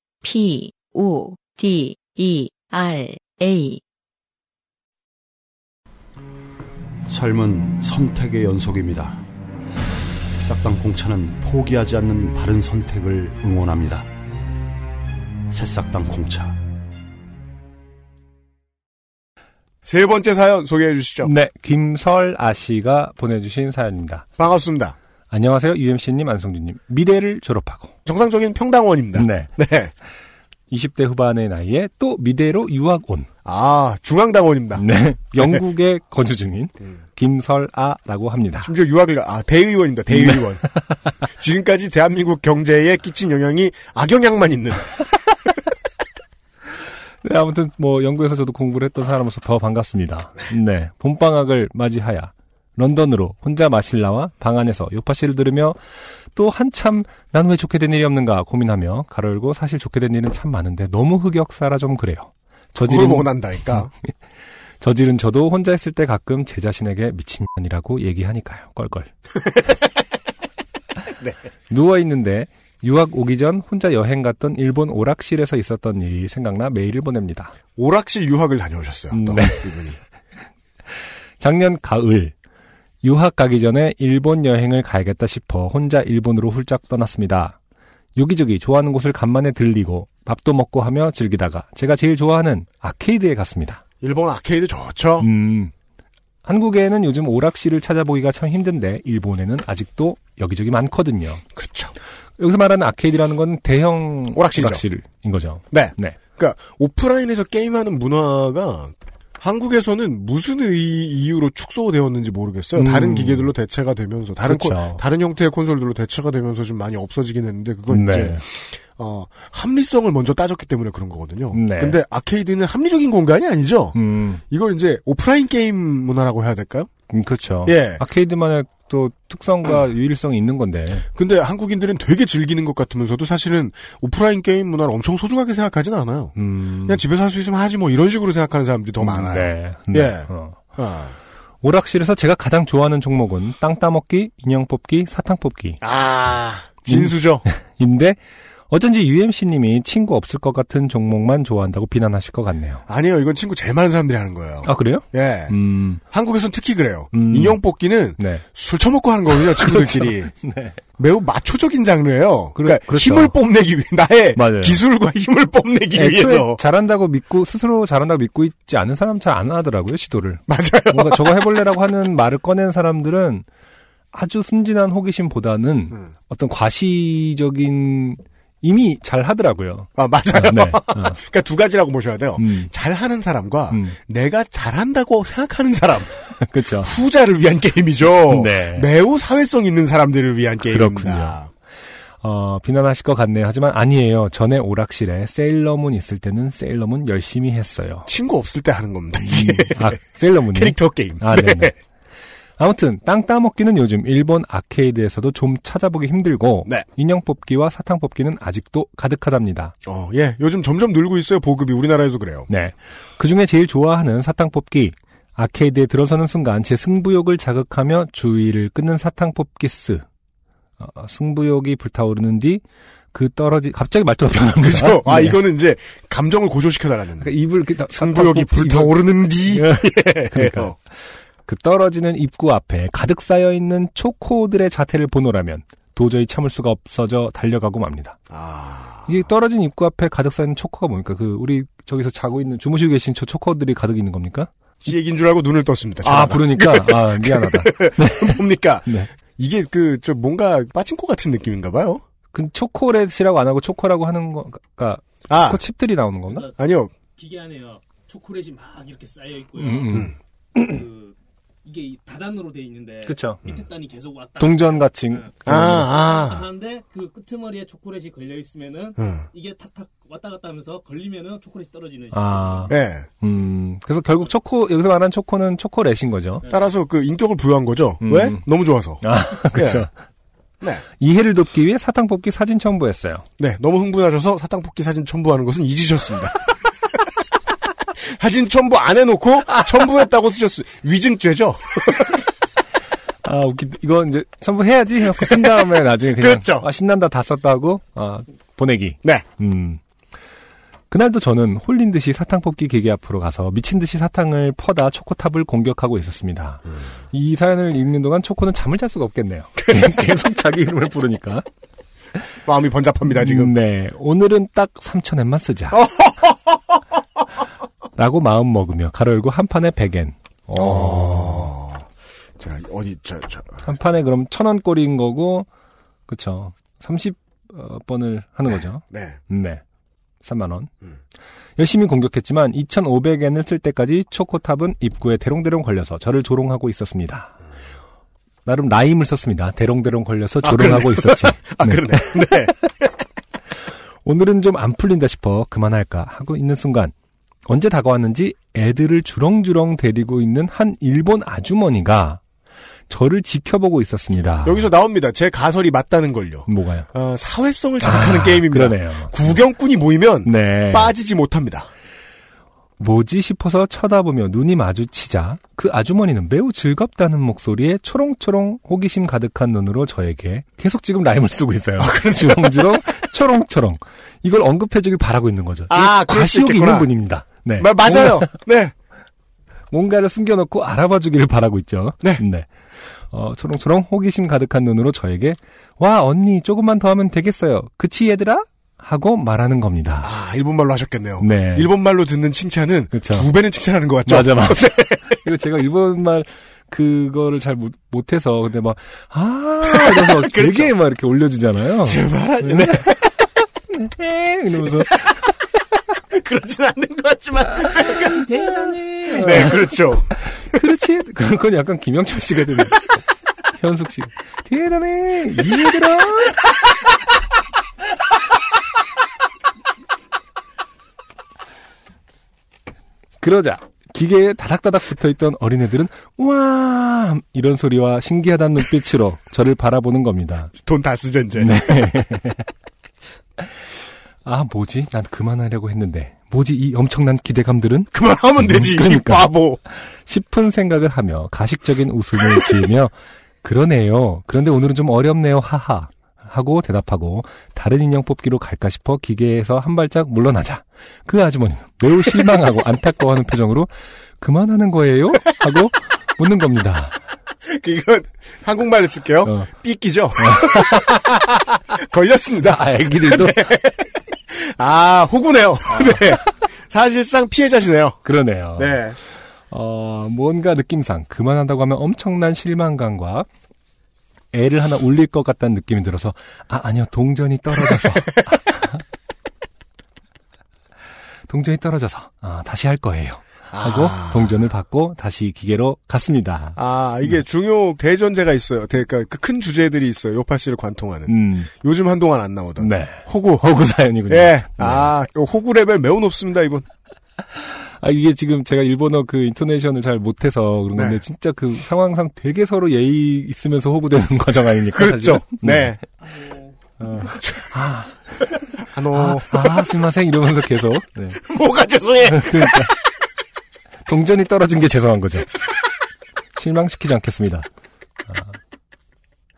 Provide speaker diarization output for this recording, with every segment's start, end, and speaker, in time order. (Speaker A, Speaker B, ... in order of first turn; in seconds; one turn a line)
Speaker A: 0.2-3.8
Speaker B: 7.1-9.2
Speaker B: 10.3-14.1
Speaker B: 15.5-16.5
Speaker C: 19.8-21.3
Speaker D: 21.2-24.3
Speaker C: 24.4-25.0
Speaker D: 25.3-27.9
Speaker C: 28.1-29.9
Speaker D: 29.1-29.5
Speaker D: 30.7-33.3
Speaker C: 33.5-34.8
Speaker D: 34.8-38.7
Speaker C: 38.6-40.7
Speaker C: 41.2-45.0
Speaker D: 47.2-55.8
Speaker D: 56.4-63.9
Speaker C: 62.8-63.9
Speaker D: 64.8-69.1
Speaker D: 71.7-77.5
Speaker C: 77.8-80.0
Speaker D: 79.1-79.8
Speaker D: 81.4-82.3
Speaker D: 83.0-87.6
Speaker D: 88.2-93.8
Speaker C: 94.0-95.3
Speaker D: 95.2-95.7
Speaker D: 96.5-101.4
Speaker C: 101.5-101.9
Speaker D: 102.4-106.2
Speaker C: 104.3-104.8
Speaker C: 105.7-124.0
Speaker D: 112.8-113.5
Speaker D: 114.4-115.0
Speaker D: 117.9-118.4
Speaker D: 121.5-122.0
Speaker D: 123.9-124.4
Speaker C: 124.5-126.9
Speaker D: 127.1-131.1
Speaker C: 127.7-128.0
Speaker C: 131.1-141.2
Speaker D: 136.4-137.0
Speaker D: 139.0-140.6
Speaker D: 141.6-145.8
Speaker C: 145.8-147.4
Speaker D: 146.9-148.2
Speaker D: 148.7-152.8
Speaker C: 152.9-160.3
Speaker D: 154.6-156.0
Speaker D: 157.1-157.6
Speaker D: 158.2-158.4
Speaker D: 159.3-160.8
Speaker C: 161.0-166.6
Speaker D: 162.6-163.4
Speaker D: 164.3-164.8
Speaker D: 165.9-173.5
Speaker C: 170.5-171.4
Speaker D: 174.1-181.2
Speaker C: 180.0-186.2
Speaker D: 182.4-182.7
Speaker D: 183.7-184.0
Speaker D: 186.4-186.9
Speaker C: 186.8-191.5
Speaker D: 188.3-188.9
Speaker D: 190.7-191.4
Speaker D: 192.2-198.1
Speaker C: 198.1-200.0
Speaker D: 199.3-201.7
Speaker C: 200.5-201.8
Speaker D: 202.6-209.7
Speaker C: 209.8-212.5
Speaker D: 212.5-220.0
Speaker D: 220.8-222.6
Speaker D: 223.1-225.4
Speaker C: 224.6-227.3
Speaker D: 227.2-230.7
Speaker C: 227.9-230.8
Speaker D: 231.5-238.2
Speaker C: 238.3-239.2
Speaker D: 239.1-244.5
Speaker C: 244.8-252.0
Speaker D: 246.0-249.1
Speaker D: 252.3-256.5
Speaker C: 255.3-255.6
Speaker C: 256.6-256.9
Speaker E: 257.2-261.1
Speaker D: 259.6-260.8
Speaker E: 261.7-265.3
Speaker D: 263.0-263.4
Speaker D: 264.4-265.9
Speaker C: 265.5-266.5
Speaker E: 265.8-272.7
Speaker C: 269.0-269.3
Speaker D: 272.1-276.5
Speaker C: 272.7-273.1
Speaker C: 276.5-279.9
Speaker D: 278.0-278.4
Speaker D: 279.0-279.9
Speaker D: 281.0-283.2
Speaker C: 283.4-286.5
Speaker C: 288.1-292.2
Speaker D: 293.2-299.8
Speaker C: 295.2-295.6
Speaker C: 296.2-296.7
Speaker D: 300.9-311.4
Speaker C: 312.4-313.5
Speaker D: 313.1-315.9
Speaker C: 315.7-316.4
Speaker D: 318.0-321.5
Speaker C: 320.6-321.9
Speaker C: 322.4-323.7
Speaker D: 323.6-325.5
Speaker D: 326.1-329.6
Speaker C: 328.5-329.2
Speaker D: 330.2-330.7
Speaker D: 331.6-337.4
Speaker D: 338.5-342.5
Speaker C: 340.4-342.6
Speaker D: 344.1-346.9
Speaker D: 347.5-352.2
Speaker D: 352.9-354.7
Speaker C: 354.4-361.7
Speaker D: 356.5-356.9
Speaker D: 357.8-359.4
Speaker D: 360.2-360.9
Speaker D: 362.8-378.4
Speaker C: 371.8-372.8
Speaker C: 375.7-376.9
Speaker C: 377.6-378.7
Speaker D: 379.7-390.1
Speaker C: 390.0-395.2
Speaker D: 391.2-391.7
Speaker D: 392.9-393.3
Speaker D: 394.1-405.1
Speaker C: 399.6-400.7
Speaker C: 401.8-403.0
Speaker C: 406.1-408.4
Speaker E: 407.8-409.5
Speaker C: 409.1-410.6
Speaker D: 409.2-409.5
Speaker D: 410.2-412.9
Speaker D: 413.5-416.4
Speaker D: 423.2-430.5
Speaker C: 430.6-432.0
Speaker D: 431.4-432.5
Speaker D: 434.2-457.0
Speaker C: 437.9-439.6
Speaker C: 452.1-452.4
Speaker C: 457.4-468.0
Speaker D: 459.2-459.5
Speaker D: 460.2-461.0
Speaker D: 462.4-463.5
Speaker D: 465.7-466.2
Speaker D: 468.0-468.8
Speaker C: 468.6-469.0
Speaker D: 469.5-473.3
Speaker D: 474.3-478.8
Speaker D: 481.3-487.2
Speaker C: 483.5-484.4
Speaker C: 486.6-493.5
Speaker D: 491.1-491.5
Speaker D: 492.6-494.9
Speaker C: 494.1-496.6
Speaker D: 497.4-505.8
Speaker C: 500.7-501.0
Speaker C: 504.7-505.8
Speaker E: 506.1-506.5
Speaker D: 506.8-508.0
Speaker C: 508.6-509.6
Speaker D: 508.9-511.2
Speaker C: 511.2-512.7
Speaker D: 512.0-512.8
Speaker D: 513.9-515.3
Speaker D: 516.4-517.5
Speaker D: 518.1-518.4